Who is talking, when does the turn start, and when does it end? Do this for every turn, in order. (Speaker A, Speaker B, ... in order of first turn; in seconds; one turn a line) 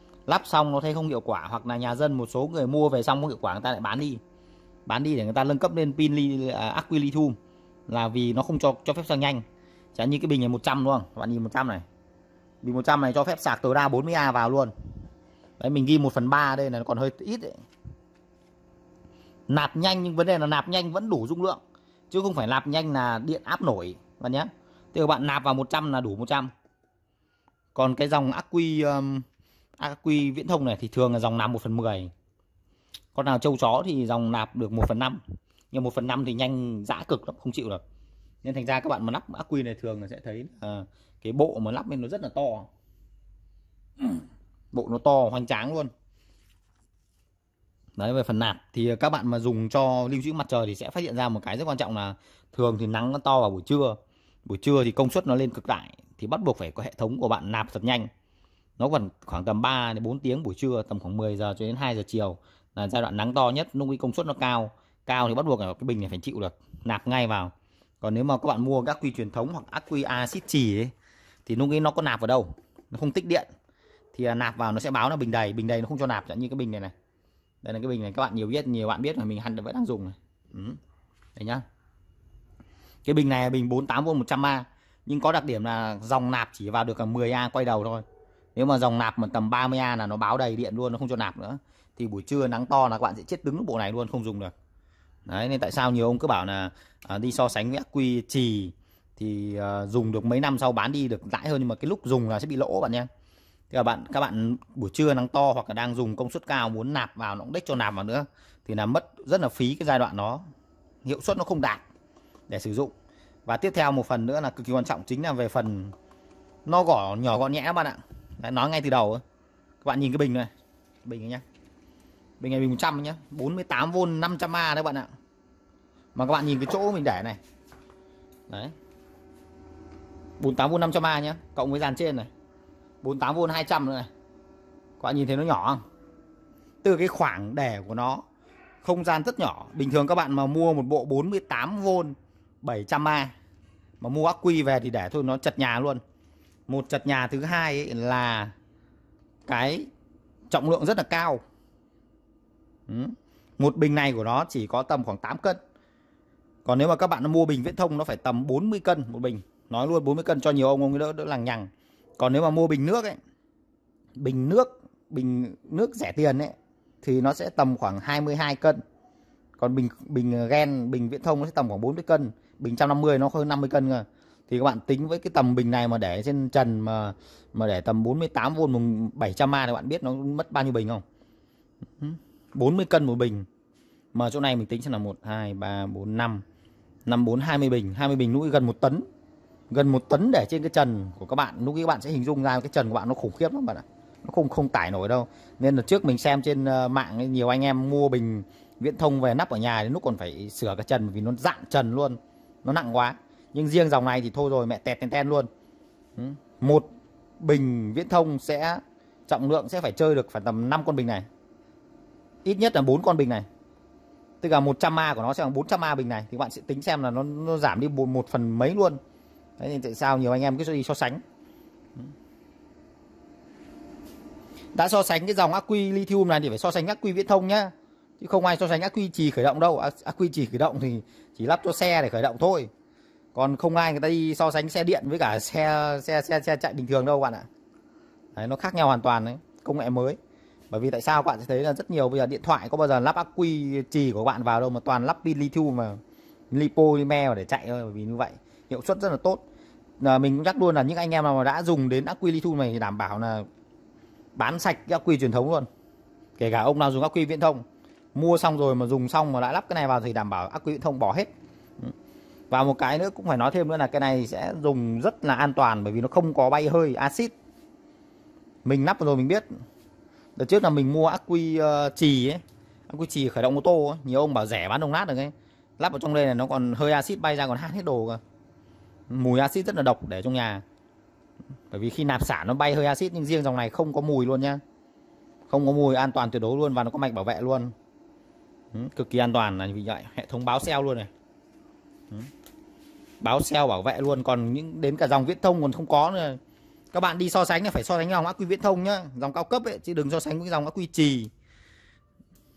Speaker A: 0.3-4.2
Speaker A: 4.8-7.4
Speaker A: 7.9-11.8
Speaker A: 12.6-14.7
Speaker A: 15.6-17.6
Speaker A: 19.5-26.5
Speaker A: 27.7-29.2
Speaker A: 29.8-32.1
Speaker A: 33.1-37.8
Speaker A: 38.4-42.7
Speaker A: 44.0-45.9
Speaker A: 48.0-58.1
Speaker A: 58.8-70.9
Speaker A: 71.5-73.5
Speaker A: 74.1-76.9
Speaker A: 77.6-80.8
Speaker A: 81.3-81.6
Speaker A: 83.0-88.0
Speaker A: 88.5-94.5
Speaker A: 95.3-103.1
Speaker A: 103.7-110.4
Speaker A: 111.0-111.8
Speaker A: 112.5-112.9
Speaker A: 113.5-115.9
Speaker A: 116.7-119.2
Speaker A: 119.8-120.5
Speaker A: 121.0-121.4
Speaker A: 122.4-125.1
Speaker A: 126.1-127.4
Speaker A: 128.5-128.7
Speaker A: 130.4-132.3
Speaker A: 133.0-134.1
Speaker A: 135.0-135.8
Speaker A: 136.8-138.2
Speaker A: 138.8-143.3
Speaker A: 144.0-146.0
Speaker A: 146.7-148.5
Speaker A: 149.5-149.9
Speaker A: 150.5-151.4
Speaker A: 152.9-155.6
Speaker A: 156.6-163.2
Speaker A: 164.2-168.8
Speaker A: 169.6-181.0
Speaker A: 182.0-183.5
Speaker A: 184.1-186.4
Speaker A: 187.1-189.1
Speaker A: 189.7-205.5
Speaker A: 206.2-206.9
Speaker A: 207.4-211.2
Speaker A: 212.4-213.5
Speaker A: 214.4-219.0
Speaker A: 219.6-221.2
Speaker A: 224.7-232.7
Speaker A: 233.3-237.5
Speaker A: 238.3-240.2
Speaker A: 240.7-246.0
Speaker A: 246.5-249.4
Speaker A: 250.0-253.5
Speaker A: 254.3-255.7
Speaker A: 256.4-261.9
Speaker A: 262.5-267.3
Speaker A: 268.6-269.5
Speaker A: 270.4-278.2
Speaker A: 279.1-280.6
Speaker A: 281.7-284.6
Speaker A: 285.5-287.7
Speaker A: 288.7-291.1
Speaker A: 293.2-296.4
Speaker A: 296.9-301.3